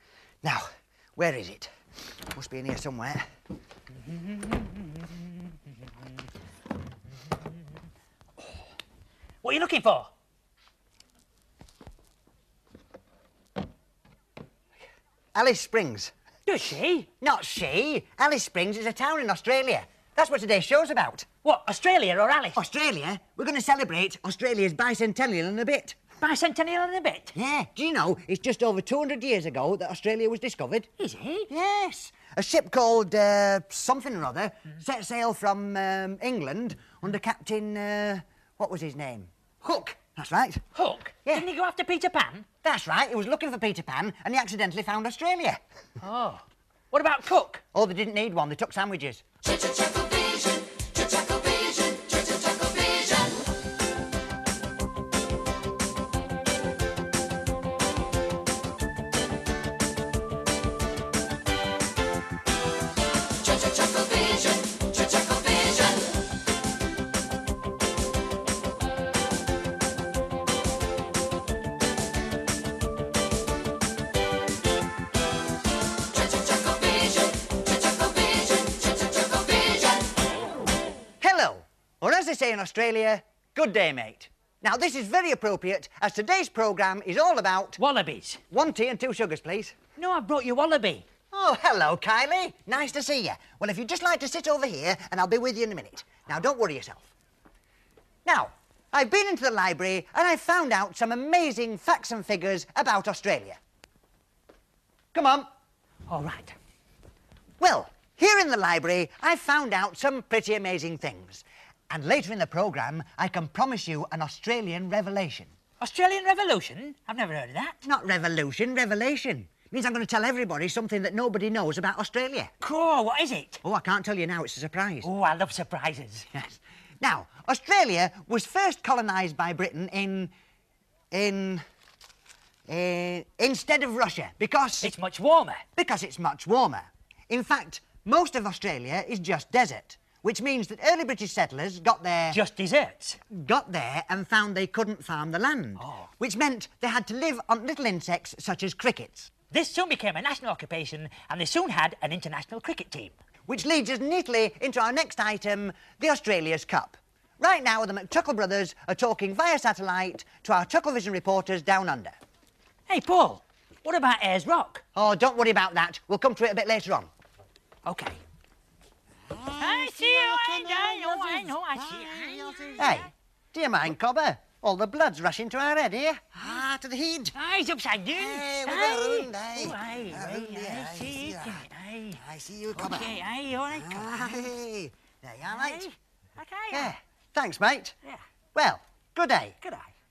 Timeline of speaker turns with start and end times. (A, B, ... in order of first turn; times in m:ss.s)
0:00.4-0:01.7 A
0:02.3-0:03.2 A
0:04.0-0:05.3 B
0:09.4-0:10.1 B
0:15.3-0:16.1 A
0:16.4-0:17.1 B
0:17.2-0:21.2 A
0:21.4-0:22.6 B
0:22.6-0:26.0 A
0:26.2-0:27.3 B
0:27.3-0:30.9 A
0:31.0-0:31.5 B
0:31.5-0:40.6 A
0:40.7-0:42.4 B
0:42.6-0:45.6 A
0:46.0-0:47.6 B
0:47.7-0:49.2 A
1:21.2-1:27.8 A
1:27.8-1:28.4 B
1:28.5-1:29.8 A
1:30.0-1:31.0 B
1:31.3-1:37.1 A
1:38.2-1:43.6 A
1:45.1-1:45.5 A
1:46.1-1:46.5 B
1:47.6-1:55.5 A
1:55.8-1:57.8 B
1:57.8-2:02.5 A
2:02.6-2:03.6 B
2:03.6-2:05.1 A
2:05.0-2:06.3 B
2:06.3-2:10.3 A
2:11.1-2:11.6 A
2:12.7-2:14.9 A
2:14.8-2:15.6 B
2:15.8-2:22.4 A
2:22.3-2:23.2 B
2:23.3-2:29.3 A
2:25.8-2:26.1 B
2:29.5-2:33.2 B
2:33.4-2:42.2 A
2:42.9-2:44.8 B
2:44.9-2:47.1 A
2:47.8-2:48.2 B
2:49.3-2:57.3 A
2:49.6-2:53.1 B
2:57.3-3:02.2 B
2:58.1-3:01.6 A
3:02.2-3:05.8 A
3:02.7-3:04.5 B
3:05.4-3:06.9 B
3:06.7-3:08.0 A
3:08.5-3:09.6 A
3:09.6-3:09.9 B